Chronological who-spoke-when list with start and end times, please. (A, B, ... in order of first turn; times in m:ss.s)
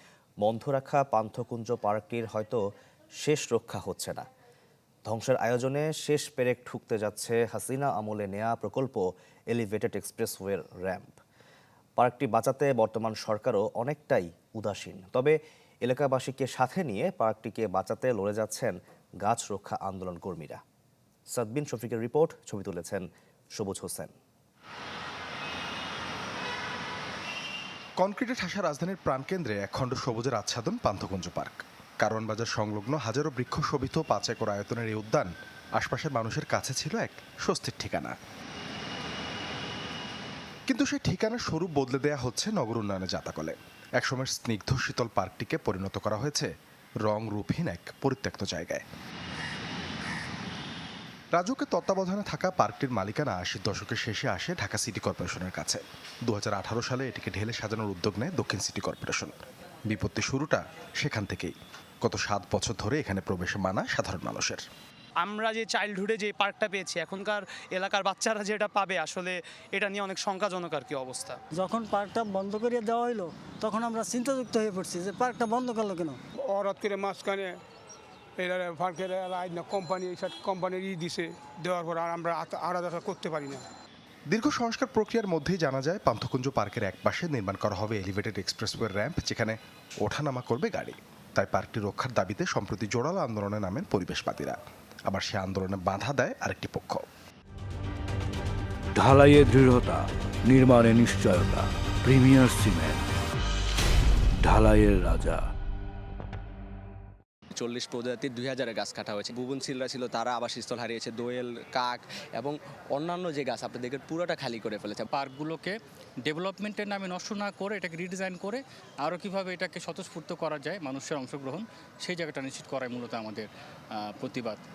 0:00.4-0:02.6 A
0:03.2-0:04.3 A
0:05.0-0:11.2 A
0:12.0-0:20.6 A
0:21.3-0:24.1 A
0:28.0-0:38.2 B
0:40.7-0:46.5 B
0:47.0-0:48.8 B
0:51.3-0:59.3 B
0:59.9-1:04.6 B
1:05.2-1:11.4 C
1:11.5-1:16.2 D
1:16.4-1:17.6 E
1:18.4-1:23.7 E
1:24.3-1:37.1 B
1:39.0-1:40.0 F
1:40.5-1:43.0 F
1:44.4-1:45.4 F
1:47.5-1:55.1 G
1:55.1-2:03.5 H
2:04.1-2:04.6 H